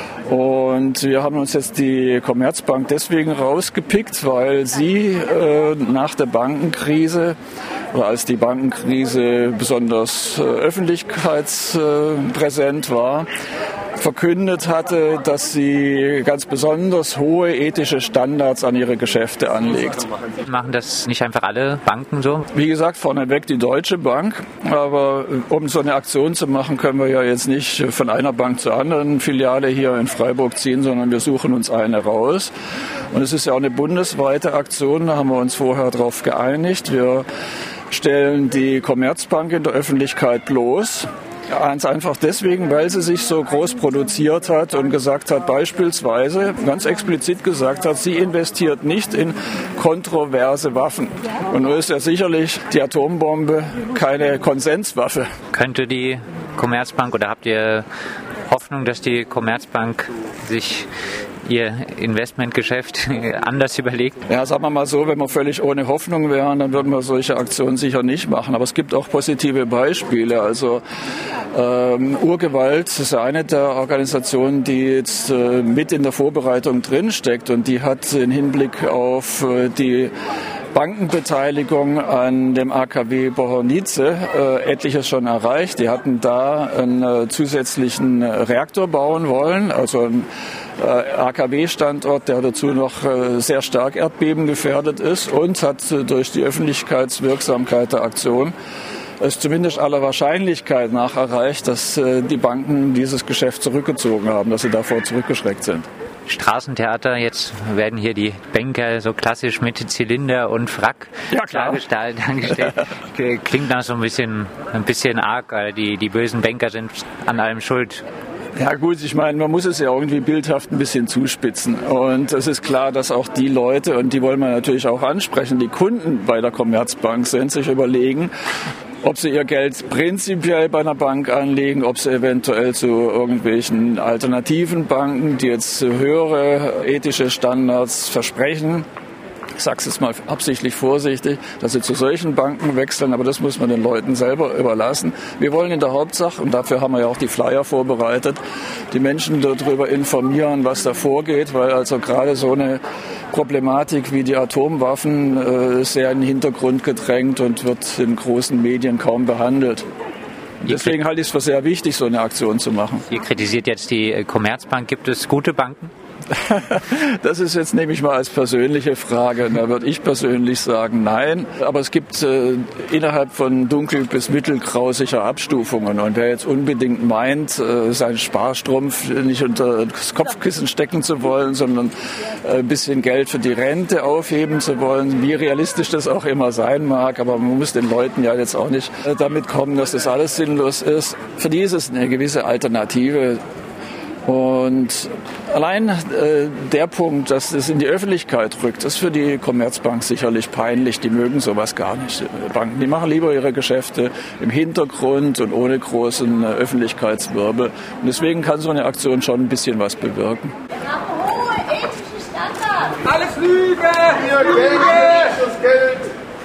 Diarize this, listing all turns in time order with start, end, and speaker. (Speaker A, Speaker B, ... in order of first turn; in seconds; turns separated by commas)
Speaker A: 0.3-7.3, Speaker A: 7.9-13.3, Speaker A: 14.0-20.1, Speaker B: 20.5-22.5, Speaker A: 22.5-32.5, Speaker A: 33.1-37.2, Speaker A: 37.9-55.3, Speaker B: 55.5-57.9, Speaker B: 58.5-60.9, Speaker B: 61.5-64.1, Speaker A: 64.3-70.8, Speaker A: 71.5-80.1, Speaker A: 80.7-90.3, Speaker A: 90.8-98.5, Speaker A: 99.2-105.8, Speaker B: 106.3-118.0, Speaker A: 111.3-111.8, Speaker A: 118.6-128.3, Speaker A: 129.0-138.8, Speaker A: 139.6-148.4, Speaker A: 148.9-159.8, Speaker B: 160.6-160.9, Speaker A: 160.6-163.1, Speaker B: 163.1-165.9, Speaker A: 166.3-193.4, Speaker A: 194.2-210.5, Speaker C: 214.0-216.1